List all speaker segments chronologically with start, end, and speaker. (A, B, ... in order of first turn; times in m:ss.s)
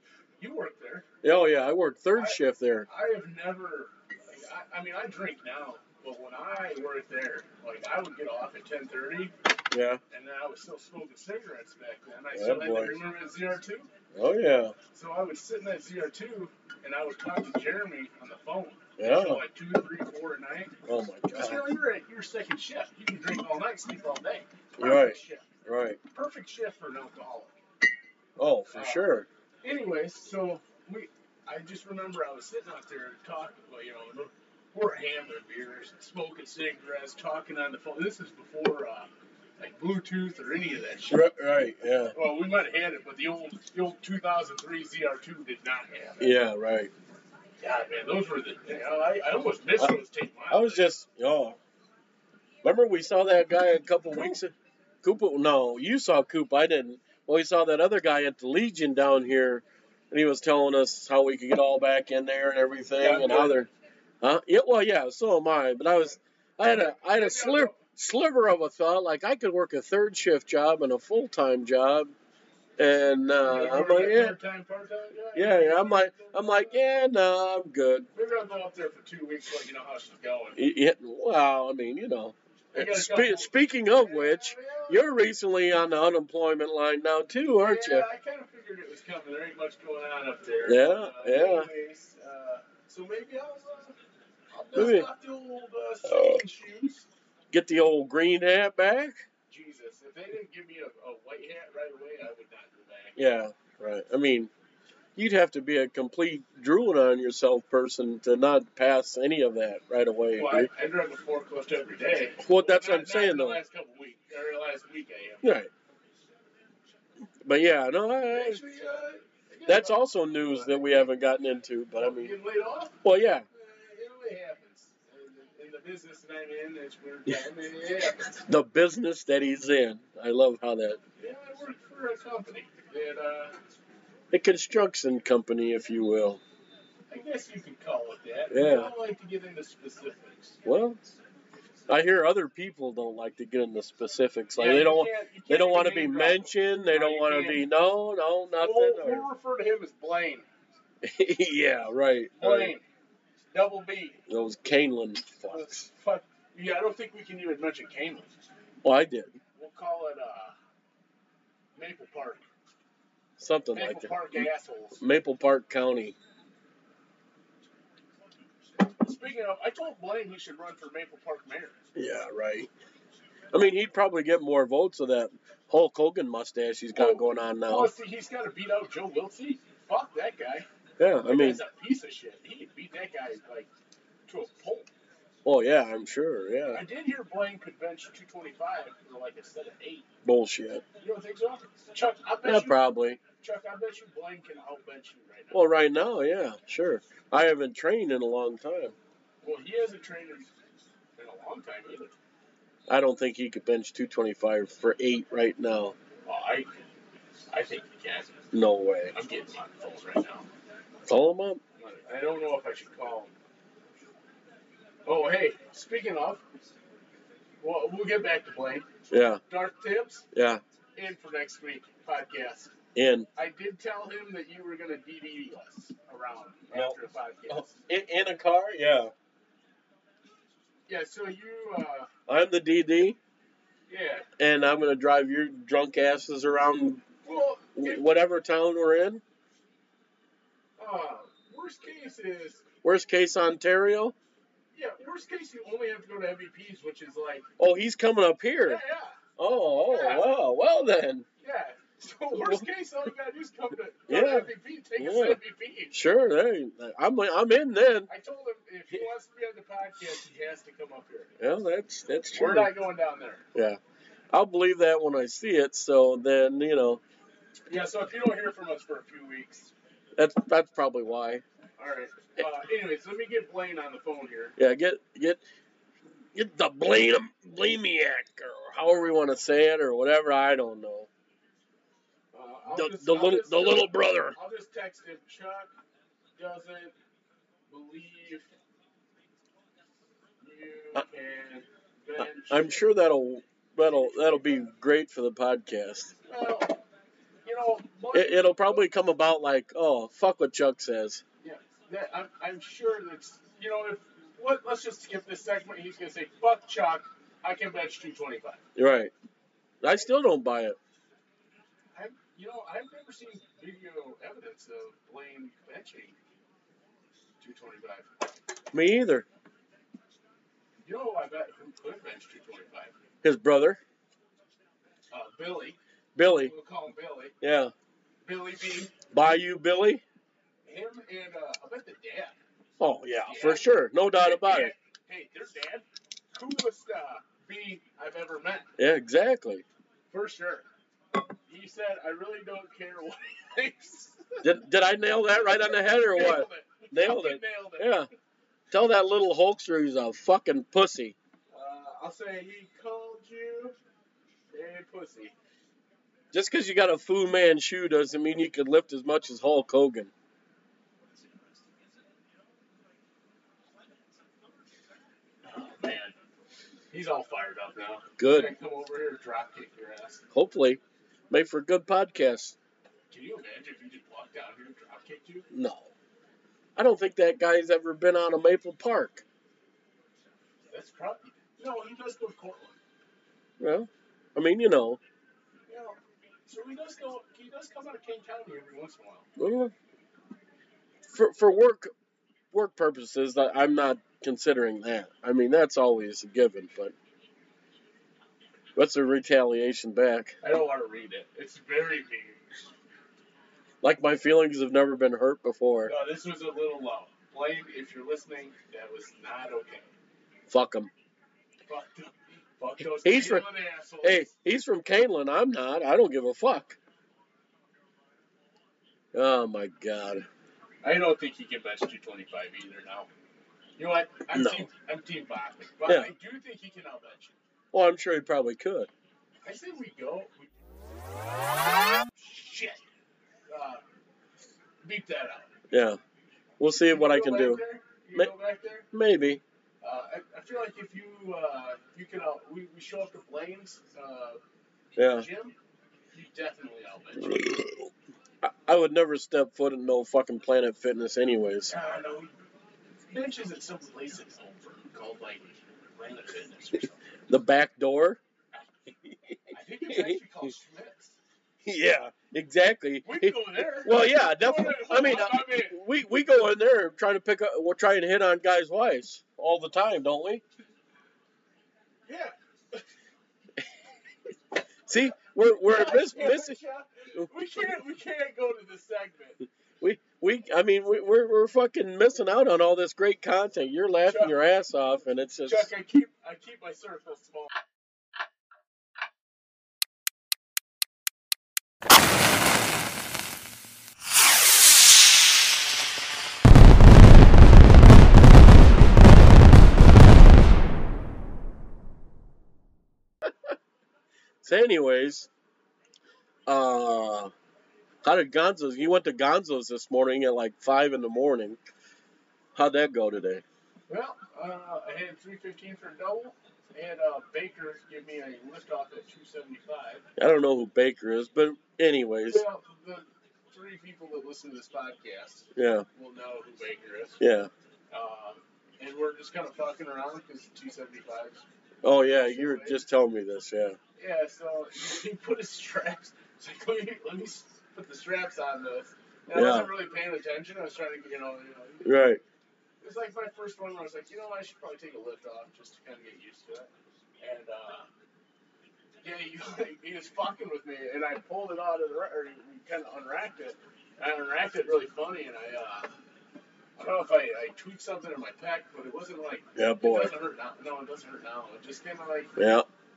0:00.4-0:01.1 A
0:01.2-0:02.9 B
0:02.1-0:09.3 A
0:09.7-0:10.0 B
0:10.1-0:13.9 A
0:12.3-0:13.0 B
0:14.1-0:14.7 B
0:14.9-0:20.8 A
0:19.0-0:19.4 B
0:20.8-0:21.7 B
0:21.3-0:25.5 A
0:24.8-0:26.0 B
0:26.1-0:27.6 A
0:28.4-0:29.3 B
0:28.7-0:29.1 A
0:29.6-0:41.3 A
0:41.1-0:42.1 B
0:42.1-0:46.4 A
0:46.2-0:46.9 B
0:47.6-0:50.8 A
0:50.5-0:51.6 B
0:52.6-1:03.7 B
1:03.0-1:03.6 A
1:04.2-1:12.1 B
1:06.6-1:07.8 A
1:12.8-1:14.4 B
1:13.4-1:16.8 A
1:15.3-1:18.1 B
1:18.1-1:20.6 A
1:20.6-1:28.0 B
1:22.7-1:25.0 A
1:27.5-1:34.0 A
1:30.6-1:31.7 B
1:34.5-1:37.0 A
1:34.7-1:35.1 B
1:36.0-1:36.4 B
1:37.5-1:39.2 B
1:39.5-1:43.3 A
1:43.2-1:44.5 B
1:45.2-1:50.7 B
1:50.3-1:55.5 A
1:52.4-1:53.6 B
1:55.4-1:55.7 B
1:57.4-1:58.6 B
1:58.3-2:01.0 A
1:59.7-2:02.3 B
2:02.0-2:08.4 A
2:03.0-2:03.4 B
2:08.4-2:11.0 B
2:11.2-2:13.5 A
2:14.3-2:16.4 B
2:17.1-2:20.6 A
2:18.5-2:18.9 B
2:20.6-2:21.0 B
2:21.9-2:29.3 B
2:24.5-2:27.7 A
2:28.6-2:30.5 A
2:31.0-2:32.7 B
2:32.4-2:32.8 A
2:33.5-2:34.2 A
2:34.3-2:35.8 B
2:35.5-2:38.3 A
2:38.8-2:39.4 B
2:39.5-2:40.5 A
2:41.8-2:42.4 A
2:43.4-2:44.5 B
2:43.7-2:45.0 A
2:45.0-2:46.2 B
2:49.0-2:51.9 A
2:51.9-2:52.7 B
2:53.5-2:57.9 B
2:56.9-3:00.6 A
3:01.0-3:01.6 B
3:01.2-3:03.7 A
3:04.3-3:04.9 A
3:05.4-3:06.8 B
3:06.7-3:10.1 A
3:10.2-3:10.8 B
3:11.0-3:15.7 A
3:12.4-3:13.2 B
3:15.5-3:18.9 B
3:19.4-3:20.5 A
3:21.2-3:22.1 A
3:22.9-3:26.0 B
3:26.2-3:26.9 A
3:27.5-3:28.5 A
3:28.5-3:29.1 B
3:29.1-3:30.5 A
3:31.1-3:31.6 B
3:31.8-3:33.3 A
3:35.0-3:36.4 A
3:37.6-3:38.9 A
3:39.1-3:39.4 B
3:39.5-3:40.3 A
3:40.3-3:40.6 B
3:41.0-3:42.7 A
3:42.9-3:43.3 B
3:43.4-3:47.8 A
3:47.5-3:49.1 B
3:50.9-3:52.1 A
3:52.3-3:53.2 B
3:53.9-3:54.3 A
3:54.4-3:57.0 B
3:57.2-3:58.0 A
3:57.8-3:59.2 B
4:00.8-4:02.6 A
4:02.8-4:04.1 B
4:04.7-4:07.5 A
4:07.6-4:08.8 B
4:08.6-4:10.3 A
4:09.4-4:11.2 B
4:11.4-4:16.0 A
4:12.4-4:12.6 B
4:14.1-4:15.4 B
4:15.9-4:18.1 B
4:18.1-4:21.4 A
4:21.4-4:22.8 B
4:22.3-4:23.5 A
4:23.5-4:23.8 B
4:24.3-4:27.0 B
4:27.7-4:29.7 A
4:30.2-4:31.4 B
4:31.8-4:34.6 A
4:34.6-4:35.4 B
4:36.3-4:41.1 B
4:42.3-4:45.7 A
4:42.7-4:44.4 B
4:46.4-4:46.9 A
4:47.7-4:48.5 A
4:50.4-4:52.8 A
4:52.2-4:56.1 B
4:53.8-4:54.7 A
4:56.3-4:56.8 A
4:57.4-4:58.9 A
4:58.1-5:01.2 B
5:01.4-5:08.6 A
5:08.7-5:09.1 B
5:09.8-5:10.8 B
5:11.9-5:16.2 A
5:17.4-5:18.1 A
5:18.7-5:19.3 B
5:20.8-5:22.9 A
5:23.2-5:23.8 B
5:25.1-5:27.3 A
5:26.2-5:26.5 B
5:27.4-5:27.7 B
5:28.2-5:29.0 A
5:29.1-5:30.0 B
5:30.6-5:32.4 A
5:32.8-5:34.7 B
5:33.2-5:38.7 A
5:38.8-5:39.6 B
5:40.1-5:40.6 A
5:41.5-5:44.5 A
5:44.4-5:48.1 B
5:45.4-5:48.0 A
5:48.7-5:51.1 B
5:51.5-5:53.8 A
5:54.5-5:55.3 A
5:56.3-6:00.1 B
6:05.4-6:06.1 A
6:06.9-6:10.2 A
6:08.2-6:08.5 B
6:10.3-6:12.6 B
6:13.1-6:15.5 A
6:15.5-6:15.9 B
6:16.8-6:19.2 B
6:20.7-6:22.8 A
6:23.6-6:25.0 B
6:25.7-6:29.3 A
6:29.4-6:29.7 B
6:31.1-6:31.9 B
6:32.5-6:36.9 B
6:38.8-6:40.4 B
6:40.4-6:42.4 A
6:43.8-6:45.9 B
6:45.8-6:49.9 A
6:50.5-6:50.9 B
6:51.7-6:54.3 A
6:52.8-6:53.5 B
6:54.0-6:56.8 B
6:59.1-7:00.2 B
7:00.8-7:03.1 A
7:03.8-7:07.4 A
7:04.3-7:04.7 B
7:05.8-7:06.1 B
7:07.7-7:08.9 B
7:09.4-7:10.5 A
7:12.1-7:12.8 A
7:13.5-7:13.8 A
7:14.8-7:15.5 A
7:15.7-7:16.0 B
7:16.6-7:17.6 B
7:16.8-7:18.9 A
7:18.9-7:19.4 B
7:19.8-7:24.4 A
7:25.0-7:25.3 B
7:25.0-7:25.5 A
7:26.1-7:27.7 A
7:27.2-7:27.9 B
7:28.4-7:31.7 B
7:31.7-7:32.3 A
7:33.1-7:37.0 A
7:37.3-7:38.2 B
7:39.1-7:40.2 B
7:39.5-7:41.2 A
7:41.6-7:50.4 B
7:43.0-7:45.8 A
7:52.1-7:52.8 A
7:54.8-7:56.6 B
7:55.6-7:59.4 A
7:59.8-8:05.7 B
8:04.0-8:04.4 A
8:05.4-8:07.5 A
8:23.3-8:23.5 B
8:24.4-8:25.3 B
8:26.5-8:27.3 B
8:28.0-8:31.6 B
8:32.5-8:33.4 B
8:33.9-8:40.1 A
8:40.2-8:42.4 B
8:42.3-8:47.2 A
8:45.5-8:45.8 B
8:47.2-8:47.5 B
8:47.9-8:51.4 A
8:51.8-8:53.8 B
8:52.0-8:52.8 A
8:54.0-9:02.2 A
8:59.3-8:59.7 B
9:01.8-9:02.2 B
9:02.8-9:07.9 A
9:09.0-9:15.9 A
9:16.8-9:22.4 A
9:19.5-9:20.1 B
9:22.4-9:22.6 B